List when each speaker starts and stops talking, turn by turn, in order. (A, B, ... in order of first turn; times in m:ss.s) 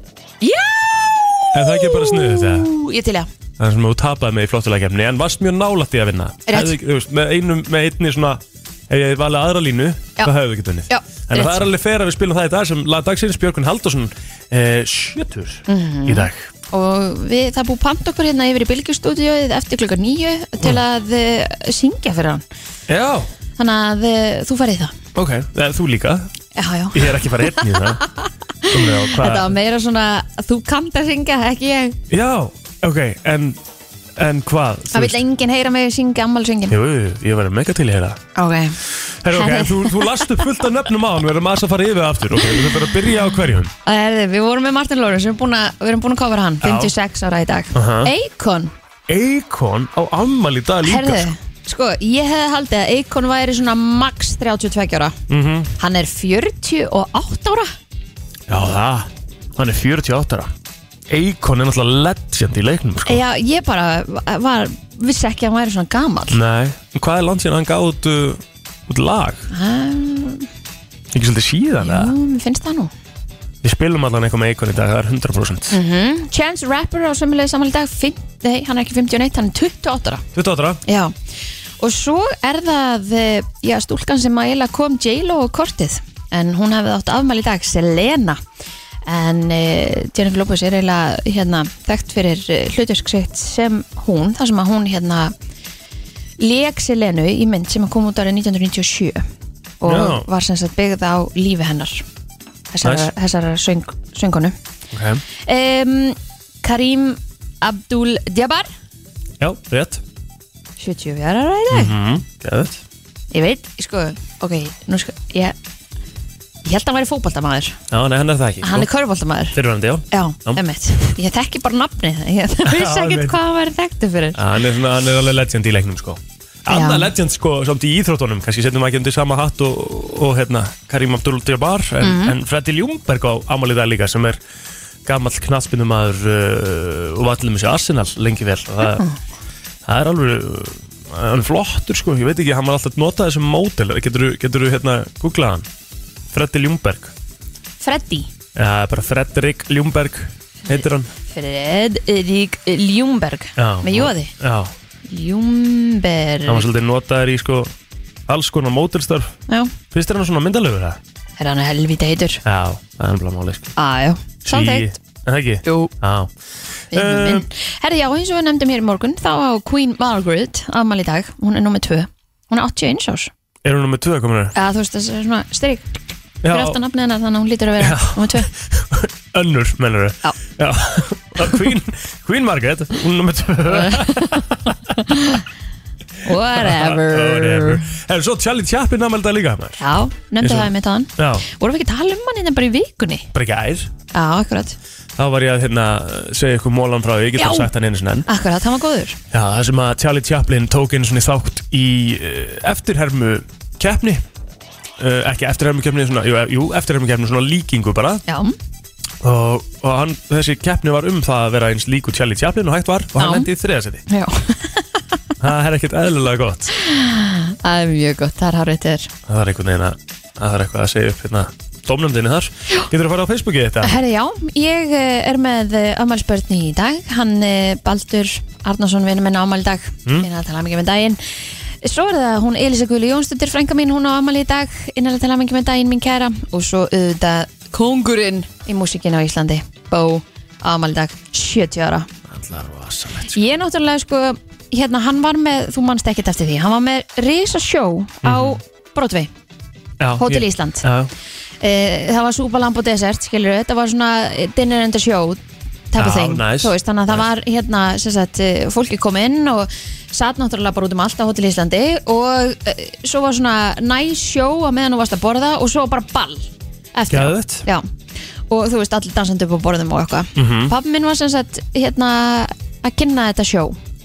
0:00.4-0:03.3 A
0:01.5-0:02.7 B
0:03.6-0:16.5 B
0:06.5-0:06.7 A
0:10.9-0:11.6 A
0:15.7-0:22.4 A
0:22.9-0:23.3 B
0:23.6-0:24.9 A
0:25.1-0:26.3 B
0:26.5-0:32.0 A
0:26.9-0:28.0 B
0:28.7-0:29.5 B
0:32.1-0:33.6 B
0:34.2-0:35.2 B
0:34.9-0:36.8 A
0:36.7-0:38.2 B
0:38.4-0:38.8 A
0:39.2-0:43.7 B
0:39.3-0:40.3 A
0:43.8-0:48.7 A
0:46.6-0:46.9 B
0:47.7-0:48.1 B
0:49.1-0:51.3 B
0:50.8-0:55.2 A
0:55.3-0:55.7 B
0:55.8-0:57.7 A
0:58.5-1:00.5 B
1:01.1-1:03.2 B
1:03.0-1:06.4 A
1:06.3-1:09.5 B
1:09.5-1:10.5 A
1:11.1-1:12.1 B
1:11.8-1:12.9 A
1:13.6-1:15.8 B
1:15.7-1:20.2 A
1:20.3-1:20.8 B
1:20.8-1:21.1 A
1:21.8-1:28.4 A
1:29.0-1:35.3 A
1:36.4-1:39.2 A
1:39.8-1:42.0 A
1:39.8-1:40.3 B
1:42.7-1:44.5 A
1:42.8-1:43.1 B
1:44.9-1:45.2 B
1:45.4-1:48.7 A
1:49.4-1:50.0 B
1:50.8-1:52.0 A
1:51.7-1:52.8 B
1:53.3-1:55.5 A
1:56.6-1:57.8 A
1:57.9-1:58.9 B
1:58.6-1:59.6 A
1:59.5-2:00.6 B
2:00.1-2:04.4 A
2:02.6-2:03.4 B
2:04.3-2:14.4 B
2:06.7-2:07.1 A
2:12.0-2:12.4 A
2:15.0-2:19.0 B
2:18.8-2:19.2 A
2:19.8-2:25.7 B
2:26.3-2:27.1 B
2:27.8-2:28.3 A
2:28.5-2:31.1 B
2:30.6-2:34.3 A
2:33.6-2:34.7 B
2:35.1-2:36.7 A
2:36.4-2:37.7 B
2:38.3-2:39.3 B
2:39.9-2:41.0 B
2:41.4-2:42.4 A
2:42.4-2:43.7 B
2:43.8-2:44.9 A
2:44.4-2:46.3 B
2:45.6-2:45.9 A
2:46.9-2:47.4 B
2:46.9-2:53.3 A
2:53.6-2:54.5 B
2:54.5-2:55.9 A
2:56.4-2:56.8 B
2:56.5-2:58.5 A
2:57.8-3:04.8 B
3:03.7-3:05.4 A
3:06.2-3:07.8 A
3:06.3-3:09.8 B
3:09.8-3:13.3 A
3:10.4-3:11.4 B
3:13.3-3:13.9 B
3:14.1-3:14.8 A
3:15.2-3:18.3 B
3:17.4-3:17.7 A
3:18.3-3:19.2 A
3:19.3-3:24.2 B
3:25.0-3:28.2 B
3:28.3-3:28.5 A
3:29.2-3:34.0 B
3:33.2-3:33.5 A
3:34.1-3:35.0 A
3:35.4-3:36.7 B
3:36.8-3:39.1 A
3:39.3-3:44.0 B
3:43.8-3:51.2 A
3:51.8-4:02.1 A
4:02.3-4:03.4 B
4:03.3-4:09.3 A
4:08.2-4:08.6 B
4:10.0-4:11.1 B
4:10.2-4:10.9 A
4:11.6-4:15.4 A
4:15.9-4:27.8 A
4:16.0-4:17.2 B
4:27.1-4:27.6 B
4:28.5-4:33.8 A
4:30.4-4:30.7 B